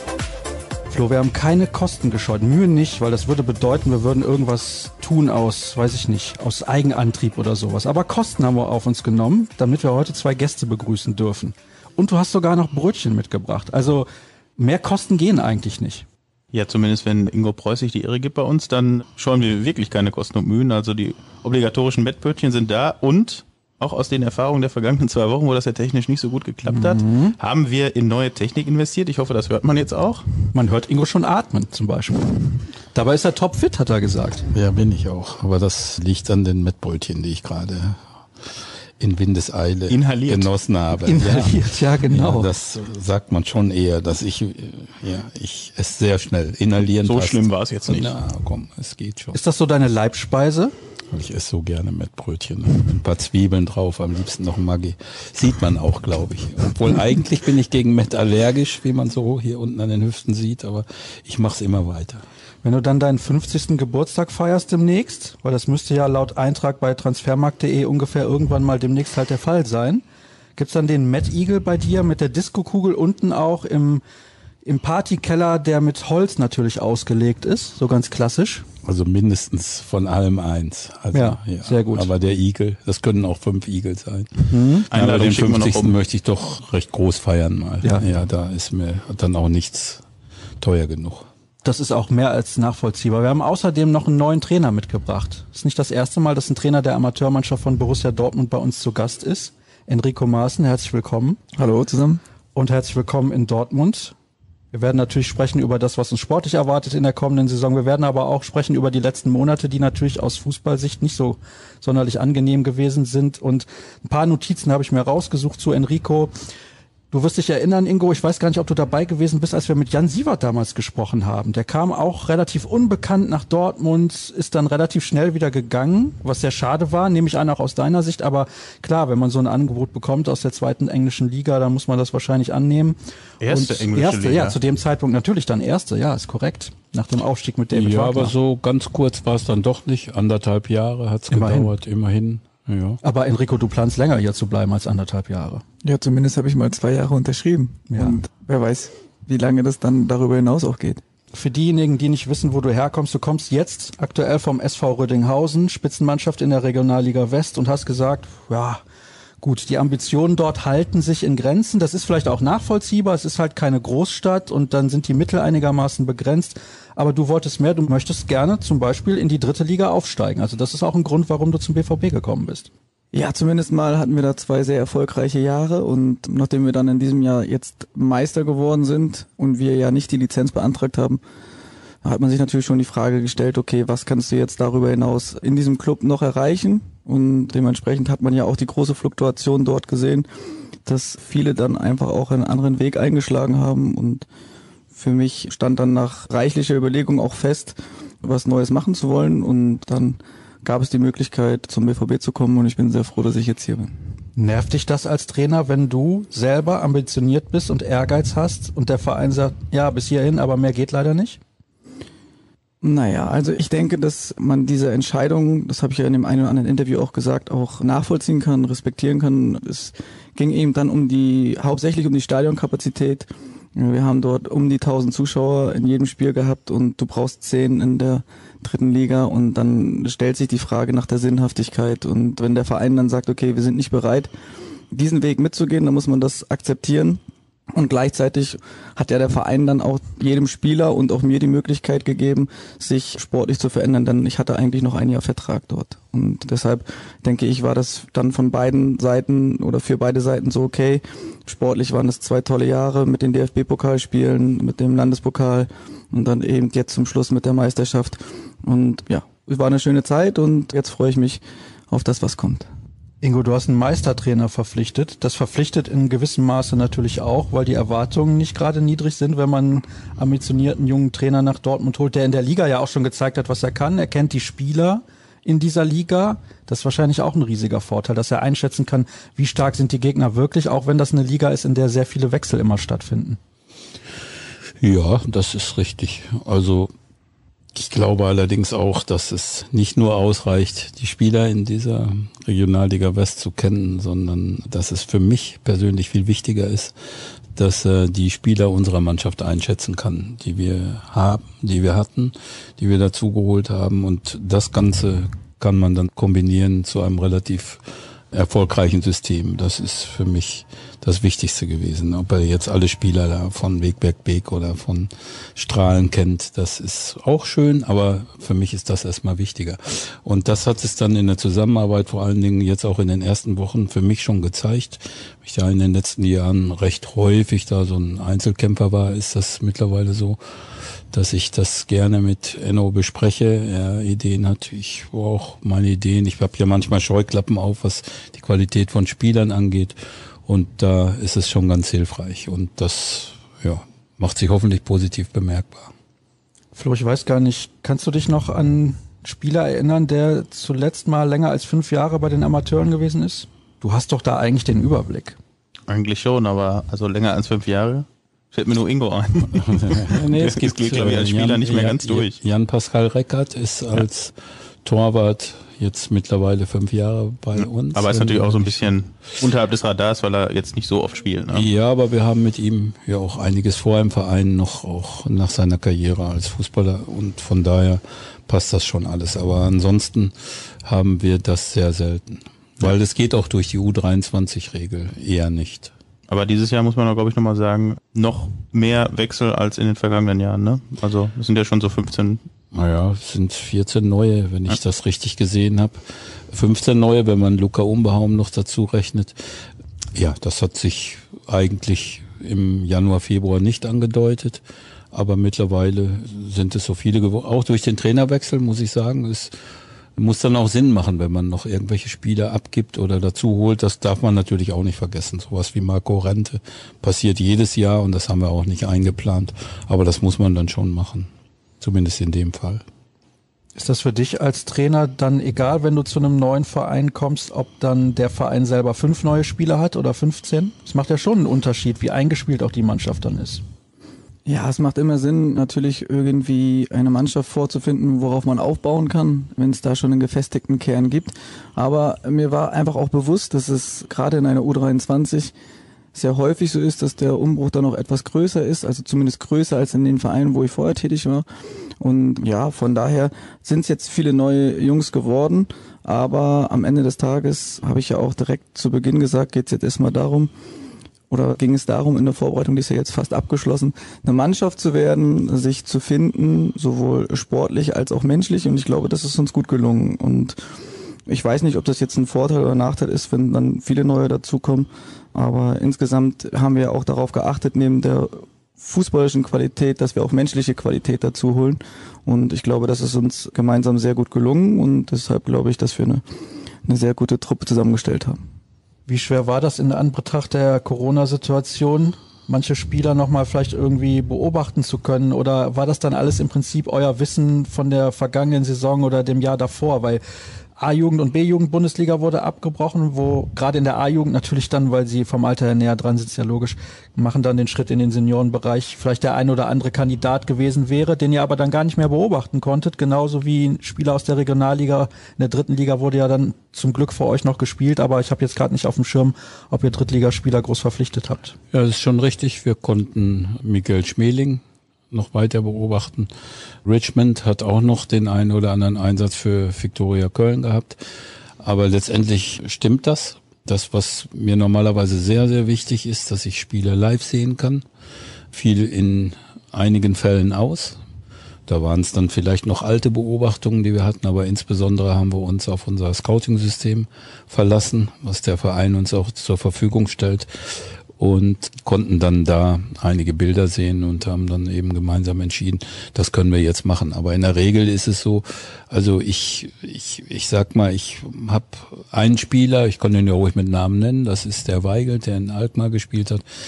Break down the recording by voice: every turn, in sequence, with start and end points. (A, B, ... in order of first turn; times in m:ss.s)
0:00.9-0:16.1 A
0:16.5-0:30.3 B
0:26.7-0:27.4 A
0:30.5-0:34.5 A
0:34.5-0:38.0 C
0:39.0-0:49.4 C
0:39.9-0:40.5 B
0:41.0-0:42.5 A
0:47.0-0:48.2 B
0:49.3-0:50.7 A
0:51.1-1:02.2 C
1:02.6-1:10.0 A
1:10.6-1:14.0 A
1:14.6-1:18.6 A
1:18.8-1:30.0 C
1:21.1-1:22.1 A
1:24.5-1:24.9 A
1:24.9-1:26.0 B
1:30.6-1:31.3 C
1:31.6-1:41.4 A
1:41.6-1:42.2 D
1:42.6-1:44.2 A
1:44.7-1:56.3 A
1:57.1-2:18.3 A
2:13.4-2:14.6 B
2:17.7-2:23.0 C
2:21.3-2:21.7 A
2:23.0-2:25.6 A
2:25.8-2:31.0 D
2:27.9-2:28.2 A
2:31.3-2:38.8 A
2:39.4-2:52.7 A
2:53.1-3:01.2 D
3:02.0-3:10.3 D
3:10.8-3:14.2 D
3:14.9-3:24.0 D
3:24.4-3:31.4 A
3:32.8-3:54.3 D
3:54.9-3:57.2 D
3:57.8-4:22.7 D
4:23.2-4:43.4 A
4:44.8-4:46.9 C
4:47.7-4:56.9 C
4:57.6-5:07.8 C
5:08.3-5:30.4 C
5:31.1-5:40.0 C
5:40.5-5:45.9 C
5:46.8-5:55.4 A
5:55.9-6:02.4 B
5:59.6-6:08.9 C
6:07.6-6:11.7 B
6:11.5-6:20.3 C
6:20.8-6:25.9 C
6:26.3-6:32.4 B
6:32.7-6:39.4 C
6:40.1-6:49.5 C
6:50.2-7:01.3 C
7:01.8-7:02.8 C
7:03.8-7:13.6 A
7:14.5-7:25.5 D
7:26.2-7:31.4 D
7:32.0-7:40.5 D
7:41.3-7:50.6 D
7:51.3-8:06.2 D
8:06.8-8:08.4 D
8:09.1-8:20.2 A
8:20.8-8:41.6 A
8:41.7-8:46.3 C
8:46.8-8:51.0 C
8:51.6-8:57.8 C
8:58.5-9:01.0 C
9:01.7-9:26.4 C